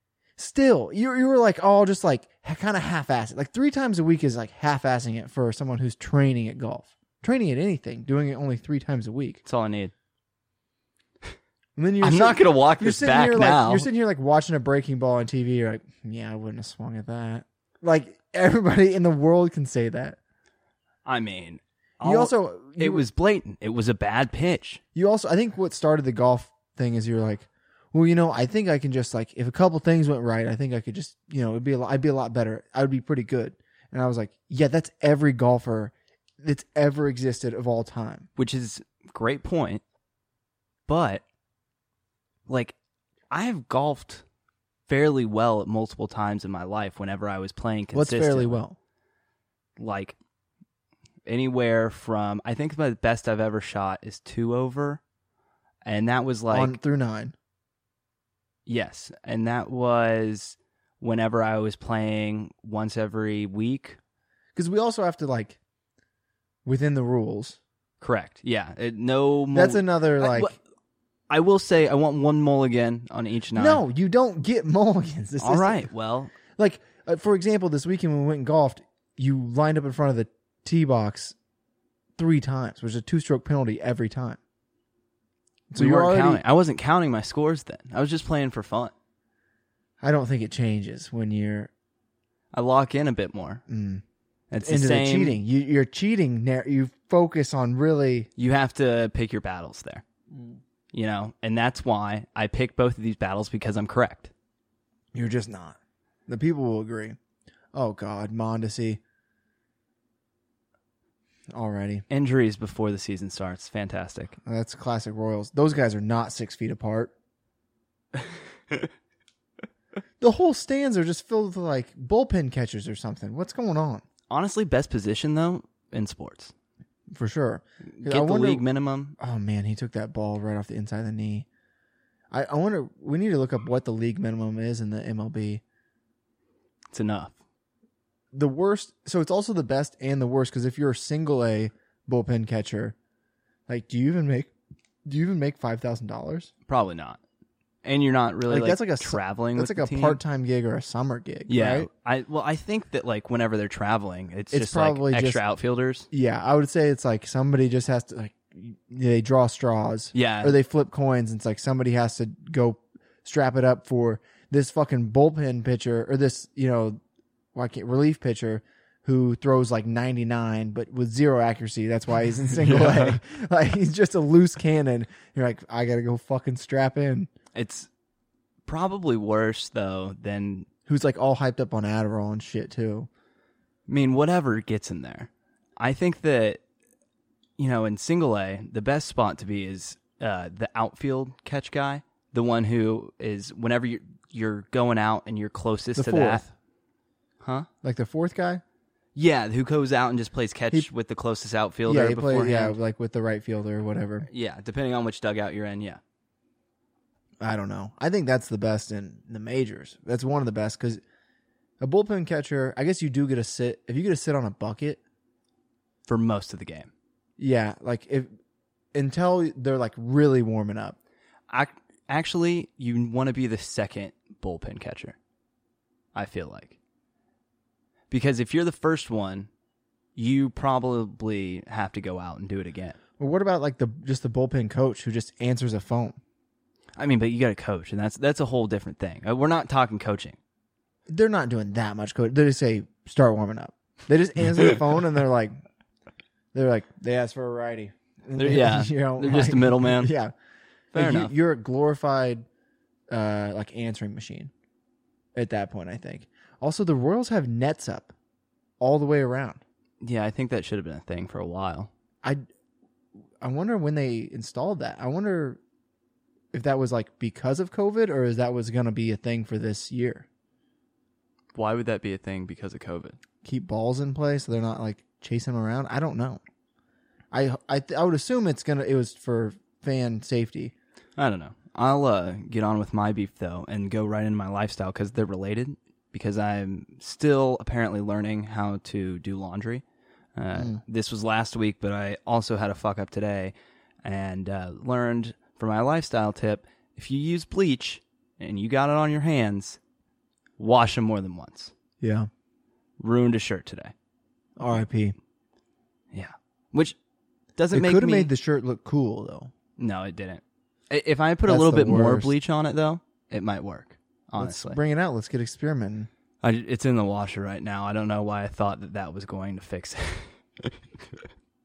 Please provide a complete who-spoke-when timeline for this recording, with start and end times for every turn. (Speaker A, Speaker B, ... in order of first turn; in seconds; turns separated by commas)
Speaker A: 0.4-9.4, Speaker B: 9.4-9.9, Speaker A: 11.8-20.2, Speaker B: 12.0-13.9, Speaker B: 21.0-24.8, Speaker A: 22.0-23.1, Speaker A: 24.9-38.3, Speaker B: 38.4-39.8, Speaker B: 40.9-41.2, Speaker B: 42.5-42.7, Speaker B: 43.3-44.2, Speaker B: 44.9-48.6, Speaker A: 47.9-48.8, Speaker B: 49.8-50.2, Speaker B: 51.2-55.0, Speaker B: 55.8-56.8, Speaker A: 56.5-57.3, Speaker B: 58.6-64.0, Speaker A: 64.5-65.6, Speaker A: 66.6-67.6, Speaker B: 68.0-70.6, Speaker A: 69.5-70.5, Speaker B: 71.3-73.8, Speaker A: 73.5-75.9, Speaker B: 75.4-76.3, Speaker A: 76.5-81.3, Speaker A: 82.2-84.4, Speaker A: 85.7-86.4, Speaker B: 85.8-88.9, Speaker A: 90.0-91.7, Speaker B: 92.5-93.6, Speaker A: 93.7-94.0, Speaker B: 94.5-95.4, Speaker A: 94.6-98.3, Speaker B: 98.4-100.0, Speaker A: 100.3-100.6, Speaker B: 100.9-104.3, Speaker A: 105.1-105.8, Speaker A: 106.3-107.2, Speaker A: 107.7-109.0, Speaker A: 111.5-112.0, Speaker B: 112.1-114.4, Speaker A: 114.4-117.1, Speaker B: 118.2-118.9, Speaker A: 120.2-124.0, Speaker B: 124.3-126.5, Speaker A: 127.1-128.6, Speaker B: 128.0-129.1, Speaker A: 129.2-131.5, Speaker A: 132.3-135.6, Speaker B: 136.9-137.3, Speaker A: 138.3-142.9, Speaker A: 143.7-144.5, Speaker A: 145.1-146.5, Speaker B: 146.7-147.2, Speaker B: 147.8-150.2, Speaker A: 148.5-151.9, Speaker B: 151.5-156.1, Speaker A: 154.5-155.4, Speaker A: 156.1-167.0, Speaker B: 160.1-160.6, Speaker A: 167.5-177.3, Speaker B: 172.6-173.2, Speaker B: 177.5-177.9, Speaker B: 178.7-180.7, Speaker A: 180.9-183.1, Speaker B: 183.9-186.6, Speaker B: 187.6-196.4, Speaker A: 195.9-196.5, Speaker B: 197.4-197.7, Speaker A: 197.8-198.6, Speaker B: 199.1-202.8, Speaker A: 201.8-204.3, Speaker B: 204.3-206.0, Speaker A: 207.4-211.0, Speaker A: 211.8-215.0, Speaker B: 216.1-216.9, Speaker A: 217.4-218.3, Speaker A: 218.9-220.9, Speaker B: 221.5-225.2, Speaker B: 226.1-226.8, Speaker B: 228.1-229.5, Speaker B: 230.2-233.0, Speaker A: 233.2-236.2, Speaker B: 237.0-240.4, Speaker A: 241.1-245.6, Speaker A: 246.5-250.3, Speaker B: 248.4-250.1, Speaker A: 250.9-252.4, Speaker B: 250.9-251.3, Speaker A: 253.1-254.5, Speaker A: 255.3-258.1, Speaker A: 258.8-259.6, Speaker B: 260.0-261.9, Speaker A: 263.4-265.6, Speaker A: 266.5-270.2, Speaker B: 271.5-273.2, Speaker A: 273.4-276.4, Speaker A: 277.3-280.7, Speaker B: 281.2-289.8, Speaker B: 290.3-299.8, Speaker B: 300.6-301.7, Speaker A: 302.0-302.3, Speaker B: 303.0-303.9, Speaker A: 304.6-305.1, Speaker B: 306.1-307.0, Speaker B: 307.6-308.3, Speaker A: 307.7-309.5, Speaker B: 309.8-314.8, Speaker A: 311.4-312.3, Speaker A: 314.4-316.1, Speaker B: 316.4-321.3